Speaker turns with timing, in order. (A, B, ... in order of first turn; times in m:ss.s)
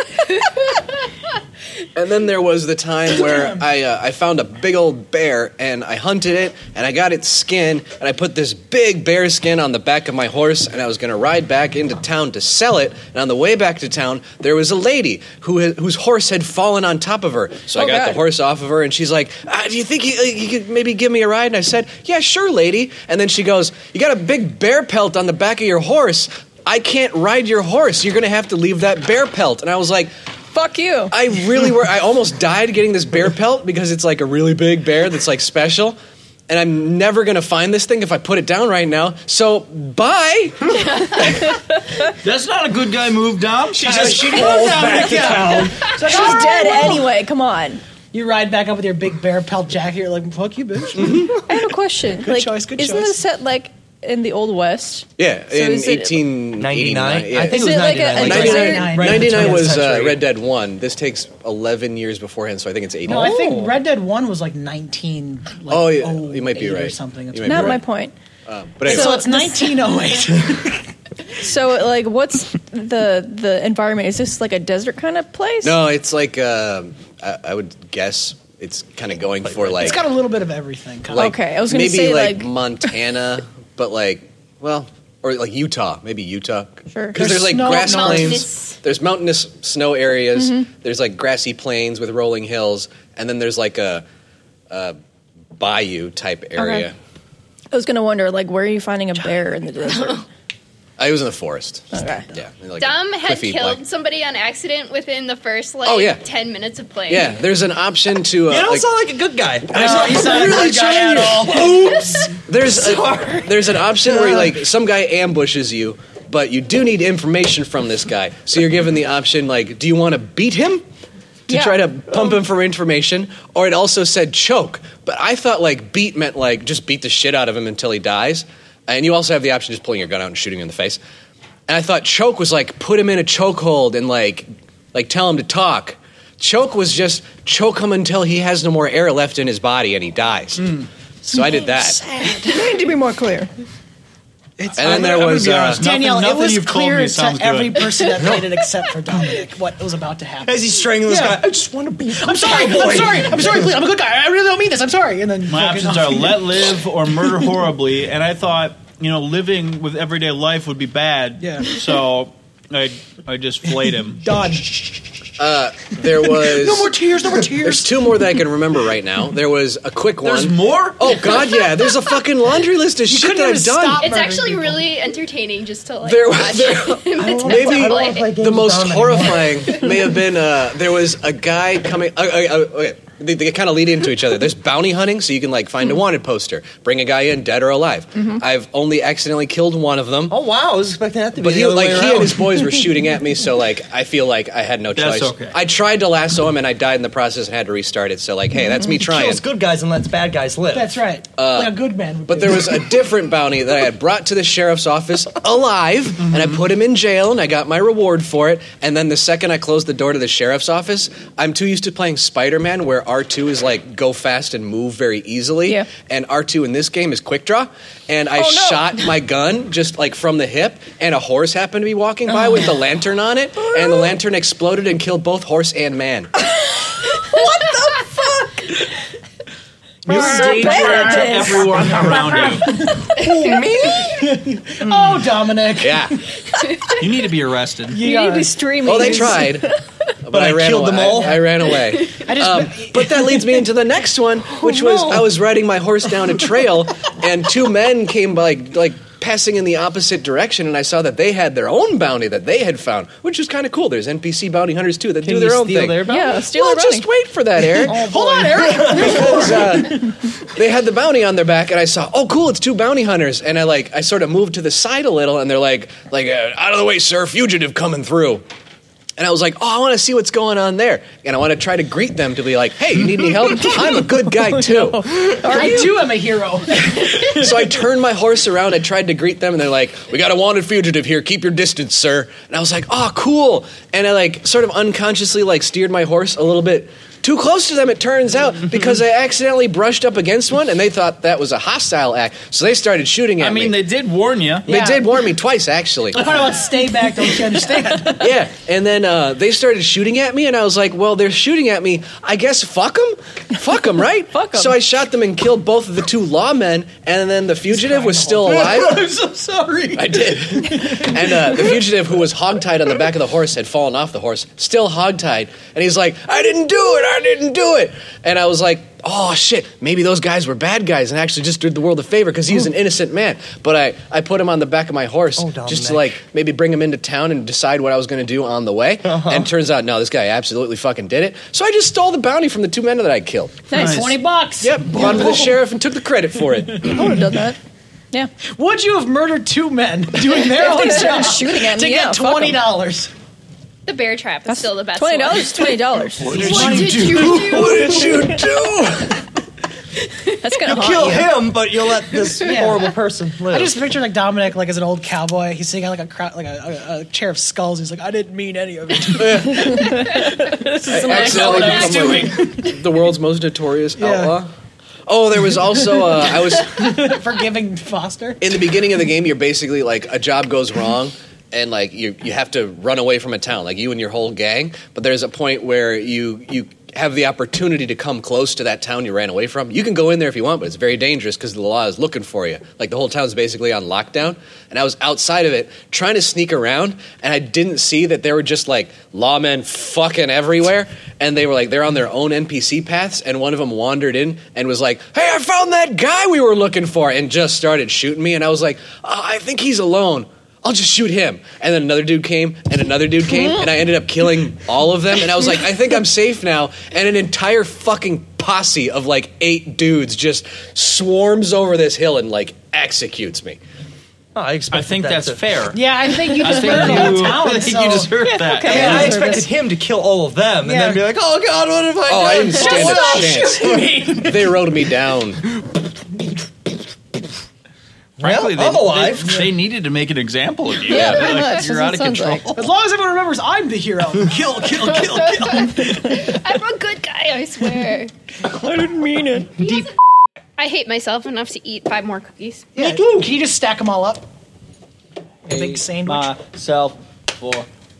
0:01.9-0:30.1 A
0:17.8-0:18.2 B
0:30.5-0:31.1 B
0:31.1-0:36.0 A
0:36.5-0:40.7 A
0:40.8-0:41.4 C
0:42.2-0:45.7 D
0:43.8-0:47.0 E
0:43.8-0:45.6 F
0:46.0-0:47.8 B
0:48.1-0:51.6 E
0:50.9-0:51.3 A
0:51.4-0:56.4 B
0:52.2-0:53.2 E
0:55.2-1:03.4 A
0:56.5-1:00.2 F
0:57.4-0:59.0 B
0:58.1-0:59.9 E
1:03.1-1:03.8 F
1:03.1-1:07.8 E
1:05.7-1:07.8 A
1:07.4-1:08.1 B
1:08.5-1:09.2 A
1:08.8-1:09.9 B
1:08.8-1:10.9 E
1:11.4-1:15.8 B
1:15.6-1:20.1 A
1:19.7-1:21.3 E
1:21.1-1:34.0 A
1:21.1-1:22.8 B
1:26.9-1:27.2 B
1:27.1-1:28.5 E
1:27.7-1:28.8 C
1:30.4-1:30.7 B
1:34.7-1:35.0 A
1:35.6-1:37.0 A
1:36.6-1:36.9 B
1:37.7-1:40.2 B
1:41.0-1:43.8 A
1:41.9-1:42.3 B
1:42.8-1:47.4 C
1:45.8-1:46.2 A
1:47.1-1:48.9 A
1:48.5-1:52.0 F
1:49.7-1:52.3 E
1:49.8-2:00.8 A
1:51.6-1:52.2 C
1:52.6-1:54.5 F
2:01.5-2:11.0 A
2:01.5-2:02.2 B
2:11.7-2:22.0 A
2:20.6-2:20.8 D
2:21.7-2:22.6 E
2:22.4-2:23.5 B
2:24.6-2:31.6 E
2:24.7-2:28.1 D
2:24.8-2:25.8 A
2:28.2-2:28.5 F
2:30.4-2:33.7 F
2:32.1-2:36.5 E
2:35.5-2:44.2 D
2:41.4-2:41.8 E
2:44.2-2:45.1 E
2:45.4-2:46.9 A
2:46.0-2:48.1 E
2:47.6-2:54.0 A
2:50.2-2:51.1 D
2:51.2-2:52.2 C
2:53.0-2:54.9 E
2:53.9-2:58.4 C
2:56.0-3:10.4 A
2:57.2-2:59.7 F
3:10.3-3:12.8 F
3:11.3-3:19.4 A
3:14.9-3:15.6 D
3:18.9-3:21.0 F
3:20.7-3:22.9 E
3:21.4-3:21.8 A
3:22.3-3:46.3 A
3:38.4-3:38.8 B
3:42.3-3:42.7 F
3:47.3-3:47.9 F
3:50.1-3:52.8 D
3:50.1-3:53.1 E
3:50.1-3:51.7 B
3:53.2-3:54.2 F
3:54.0-3:56.2 E
3:54.8-3:55.3 F
3:55.8-3:56.2 A
3:57.0-3:58.0 D
3:57.9-3:59.4 E
3:58.0-3:59.7 B
3:58.8-3:59.7 A
4:00.3-4:18.0 A
4:00.3-4:01.5 F
4:02.2-4:03.6 E
4:04.5-4:05.4 F
4:15.2-4:16.4 F
4:16.1-4:17.0 B
4:17.8-4:19.9 F
4:17.9-4:20.0 E
4:18.7-4:28.4 A
4:29.2-4:35.0 A
4:33.6-4:36.1 B
4:35.4-4:37.8 E
4:37.3-4:53.8 A
4:53.4-4:54.7 D
4:54.7-4:56.4 A
4:54.7-4:55.1 E
4:56.1-4:58.3 E
4:58.2-5:09.0 A
5:04.3-5:04.8 B
5:07.7-5:10.0 E
5:09.9-5:33.6 A
5:10.8-5:11.1 E
5:25.4-5:26.2 F
5:29.0-5:29.5 F
5:33.7-5:34.0 B
5:33.7-5:34.2 D
5:33.7-5:35.6 E
5:34.6-5:37.2 A
5:36.8-5:37.6 B
5:38.6-5:43.1 E
5:40.3-5:42.6 B
5:43.8-5:48.3 C
5:44.4-5:46.7 B
5:46.2-5:48.2 E
5:47.5-5:49.2 A
5:50.4-5:51.5 B
5:50.6-5:53.8 F
5:52.4-5:52.7 C
5:52.4-5:52.9 E
5:53.5-6:02.7 E
5:59.1-5:59.8 A
5:59.7-6:02.2 B
6:00.9-6:04.5 A
6:04.0-6:04.3 E
6:05.1-6:07.1 A
6:05.8-6:08.5 E
6:08.4-6:53.6 A
6:54.3-6:55.5 F
6:54.7-6:59.3 D
6:55.7-6:59.5 E
6:58.2-6:59.5 B
6:58.6-7:01.2 F
7:00.6-7:01.0 E
7:01.2-7:03.2 D
7:02.1-7:05.4 A
7:02.2-7:04.4 F
7:02.5-7:03.4 E
7:02.6-7:03.3 C
7:08.2-7:09.5 F
7:08.2-7:12.7 D
7:10.9-7:12.5 B
7:10.9-7:11.3 A
7:12.5-7:16.1 E
7:14.6-7:18.1 C
7:18.4-7:19.6 B
7:19.6-7:19.9 C
7:20.6-7:22.7 C
7:22.8-7:24.2 E
7:22.8-7:23.3 F
7:25.4-7:27.7 D
7:25.5-7:26.3 E